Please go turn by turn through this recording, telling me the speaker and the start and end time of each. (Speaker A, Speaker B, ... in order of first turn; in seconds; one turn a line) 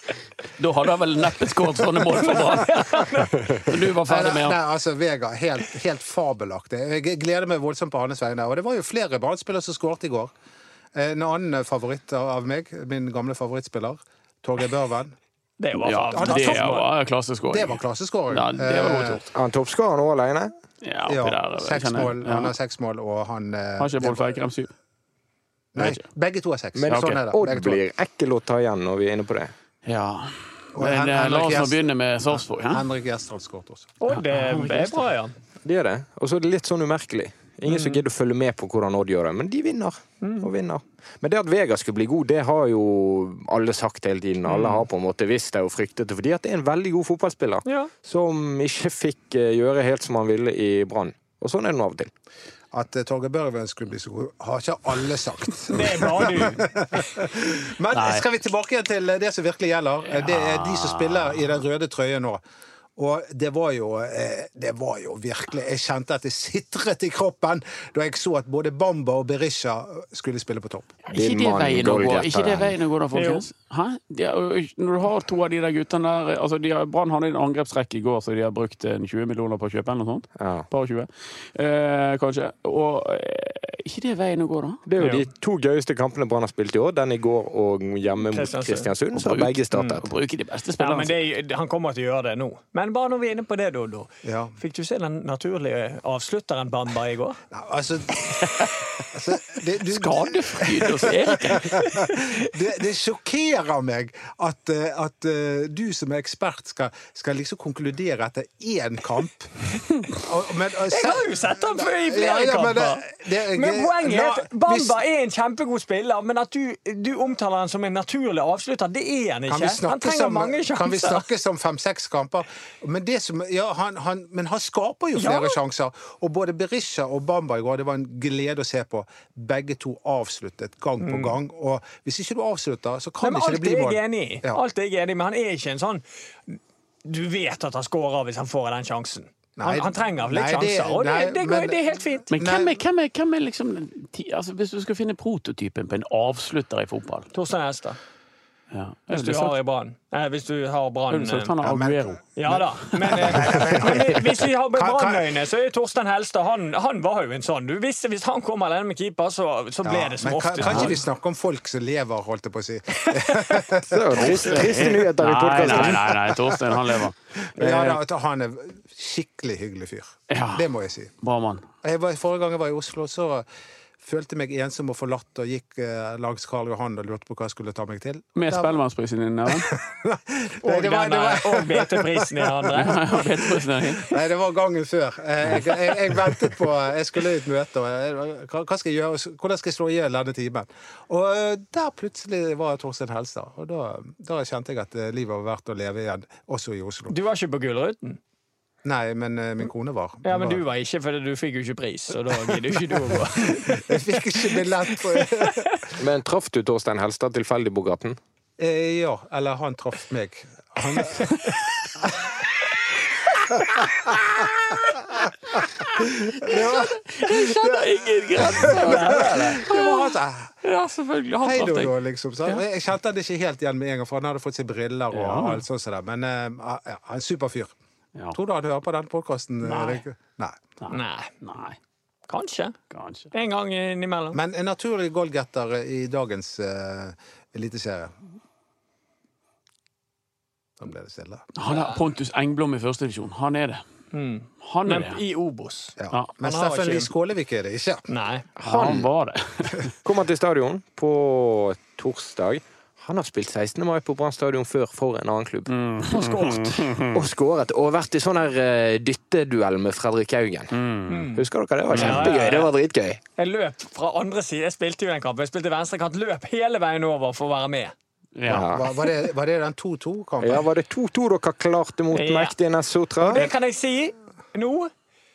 Speaker A: 0.6-3.0
Speaker B: 2.1-3.4
Speaker A: 3.6-4.6
Speaker C: 4.0-10.3
Speaker C: 10.9-15.2
Speaker B: 15.6-16.9
Speaker A: 15.8-17.8
Speaker C: 16.1-16.6
Speaker C: 17.5-19.2
Speaker A: 18.3-19.2
Speaker D: 19.3-20.5
Speaker A: 20.8-22.5
Speaker C: 21.1-24.4
Speaker A: 23.8-24.7
Speaker C: 25.7-27.8
Speaker A: 25.8-26.0
Speaker D: 26.8-29.5
Speaker A: 26.9-27.2
Speaker A: 29.8-32.9
Speaker C: 30.8-31.8
Speaker C: 32.3-33.9
Speaker B: 34.0-35.3
Speaker A: 34.1-35.0
Speaker D: 35.6-52.1
Speaker B: 37.7-38.0
Speaker B: 40.2-40.5
Speaker B: 47.6-47.9
Speaker C: 52.7-62.4
Speaker B: 55.7-56.6
Speaker A: 57.9-58.2
Speaker A: 60.1-61.6
Speaker C: 63.0-70.9
Speaker A: 71.1-84.8
Speaker D: 71.1-72.7
Speaker B: 73.1-73.5
Speaker D: 80.4-80.7
Speaker D: 84.8-90.0
Speaker B: 85.0-85.2
Speaker B: 88.3-88.9
Speaker A: 89.1-91.2
Speaker B: 89.7-90.0
Speaker B: 90.8-97.4
Speaker C: 94.2-94.5
Speaker C: 97.5-115.0
Speaker A: 99.9-102.1
Speaker B: 110.9-121.2
Speaker C: 119.5-134.6
Speaker B: 125.2-125.6
Speaker B: 131.0-131.3
Speaker B: 133.2-142.3
Speaker C: 139.6-141.8
Speaker C: 142.3-142.7
Speaker A: 142.3-147.3
Speaker B: 147.3-148.0
Speaker A: 148.7-149.6
Speaker B: 149.1-151.5
Speaker A: 151.1-153.6
Speaker C: 151.6-152.2
Speaker B: 152.3-161.0
Speaker C: 153.1-155.2
Speaker C: 159.8-164.7
Speaker A: 160.6-160.9
Speaker B: 163.2-163.6
Speaker D: 163.9-166.2
Speaker A: 164.1-168.0
Speaker C: 165.7-166.7
Speaker C: 167.6-171.1
Speaker A: 170.3-170.7
Speaker A: 171.2-171.6
Speaker C: 171.8-173.4
Speaker C: 174.0-178.8
Speaker A: 178.3-179.7
Speaker C: 179.5-197.1
Speaker B: 180.6-183.0
Speaker A: 182.7-184.1
Speaker B: 197.1-198.2
Speaker C: 198.8-200.6
Speaker B: 200.2-203.9
Speaker C: 203.0-205.9
Speaker B: 205.2-205.5
Speaker D: 206.0-208.2
Speaker C: 208.6-212.2
Speaker C: 213.5-214.4
Speaker C: 215.6-220.5
Speaker A: 215.9-221.9
Speaker B: 218.6-219.6
Speaker C: 221.4-227.7
Speaker A: 225.1-225.6
Speaker C: 228.3-230.6
Speaker A: 229.7-230.0
Speaker A: 230.8-231.8
Speaker B: 230.9-231.3
Speaker B: 232.3-232.7
Speaker A: 232.9-233.3
Speaker B: 233.3-234.4
Speaker C: 234.3-238.2
Speaker C: 240.8-241.4
Speaker A: 241.6-243.8
Speaker B: 241.7-242.0
Speaker B: 244.1-247.1
Speaker A: 244.6-245.2
Speaker C: 246.0-248.0
Speaker B: 248.1-248.4
Speaker D: 248.6-249.1
Speaker A: 248.6-249.9
Speaker D: 250.0-255.7
Speaker A: 255.7-257.2
Speaker B: 256.1-256.9
Speaker D: 257.1-260.7
Speaker A: 260.7-261.3
Speaker B: 261.1-262.7
Speaker D: 261.3-263.2
Speaker A: 261.9-262.4
Speaker B: 263.4-267.9
Speaker A: 268.4-268.7
Speaker D: 268.5-268.9
Speaker C: 268.5-270.6
Speaker D: 270.4-273.5
Speaker B: 272.1-272.5
Speaker B: 273.2-274.9